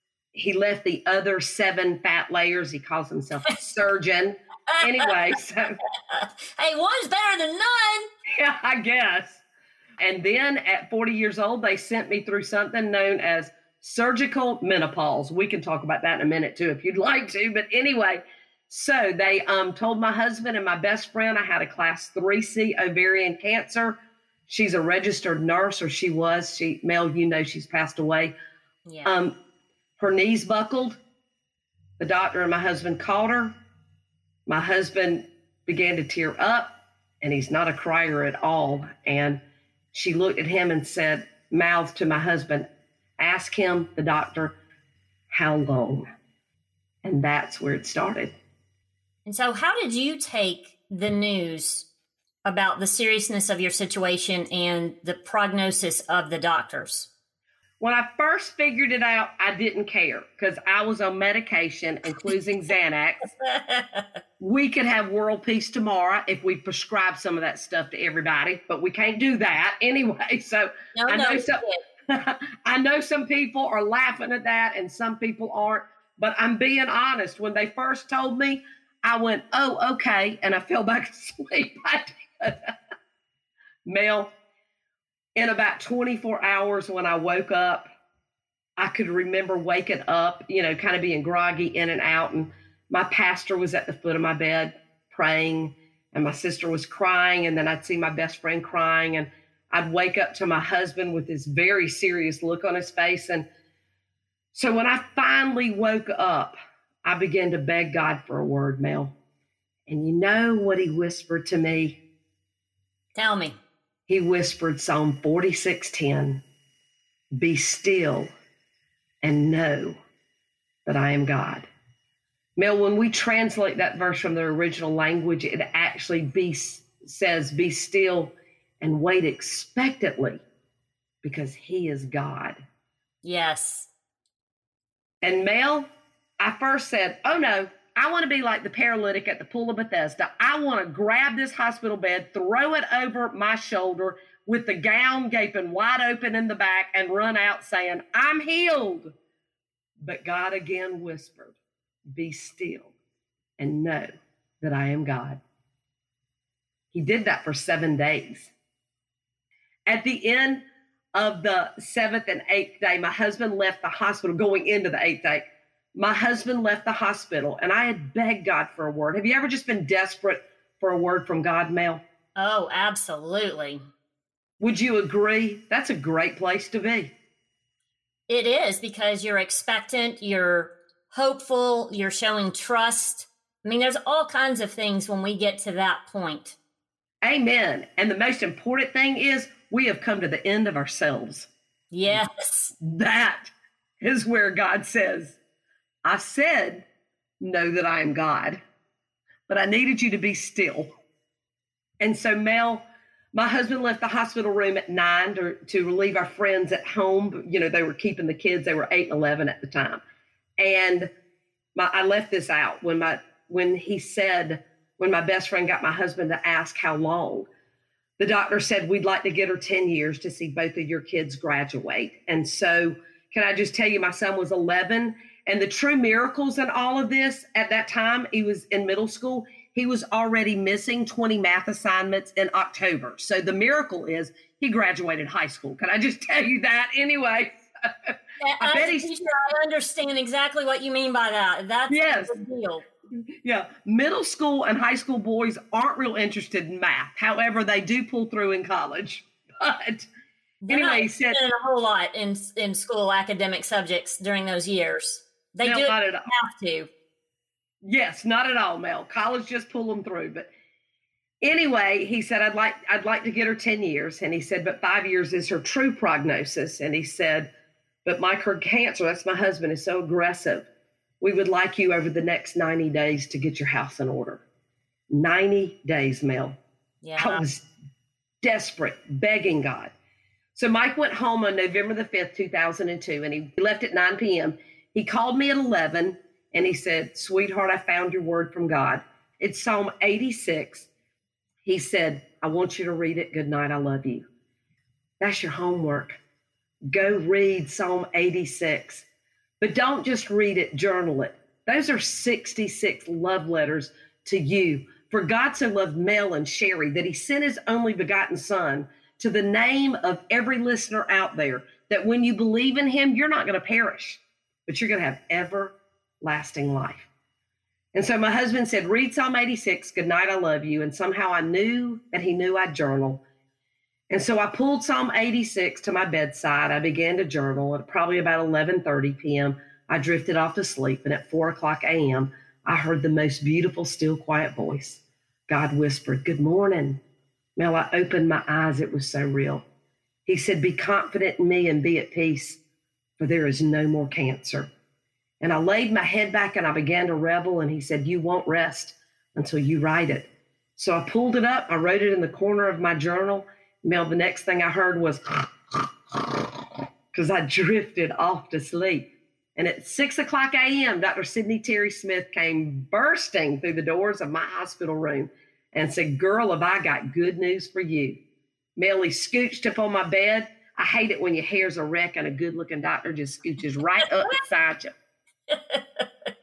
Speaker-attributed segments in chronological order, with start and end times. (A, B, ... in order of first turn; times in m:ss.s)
0:00.3-0:05.8 A
0:06.1-0:08.1 B
0:08.3-0:09.4 A
0:10.0-0:28.3 A
0:29.0-0:29.3 A
0:30.0-0:31.0 A
0:32.0-0:33.6 A
0:34.5-0:42.7 A
0:43.2-0:44.6 A
0:45.3-0:46.0 A
0:47.0-0:48.3 A
0:49.2-0:51.8 B
0:52.4-0:57.1 B
0:57.8-1:03.3 A
1:03.4-1:04.0 B
1:04.4-1:22.7 A
1:10.9-1:11.8 B
1:23.8-1:24.3 A
1:25.4-1:27.9 A
1:28.8-1:43.4 A
1:44.5-1:49.1 A
1:49.9-1:52.0 A
1:53.1-1:53.6 B
1:54.1-1:56.4 A
1:57.3-1:58.3 A
1:59.2-2:00.0 A
2:00.8-2:01.6 A
2:02.6-2:10.4 A
2:11.2-2:12.6 A
2:13.2-2:13.9 B
2:15.2-2:29.1 A
2:30.0-2:31.6 A
2:32.1-2:32.9 A
2:33.6-2:34.1 A
2:34.6-2:35.4 A
2:36.9-2:38.5 A
2:39.8-2:52.0 A
2:52.4-2:53.8 B
2:54.6-2:57.1 A
2:58.3-3:06.6 B
3:07.2-3:11.5 A
3:11.9-3:12.7 B
3:12.8-3:15.4 A
3:16.0-3:16.8 A
3:17.4-3:18.6 A
3:19.5-3:20.9 A
3:22.0-3:30.0 A
3:30.6-3:31.1 A
3:31.8-3:37.5 A
3:38.2-3:59.1 A
3:58.4-4:02.8 B
4:01.9-4:02.4 A
4:03.4-4:10.1 A
4:10.6-4:16.9 B
4:10.7-4:11.4 A
4:15.6-4:16.3 A
4:17.8-4:20.5 A
4:21.4-4:27.5 A
4:28.0-4:30.7 A
4:31.2-4:34.4 A
4:35.1-4:36.6 A
4:37.0-4:37.4 B
4:37.2-4:37.6 A
4:38.4-4:39.9 A
4:40.5-4:50.9 A
4:51.6-4:54.2 A
4:55.2-4:56.2 A
4:56.9-4:59.0 A
4:59.6-5:17.1 A
5:17.9-5:23.2 A
5:24.1-5:37.0 A
5:37.6-5:39.6 A
5:40.2-5:42.6 A
5:43.2-5:44.7 A
5:45.4-5:56.5 A
5:57.1-6:08.2 A
6:08.8-6:14.9 A
6:15.5-6:16.0 B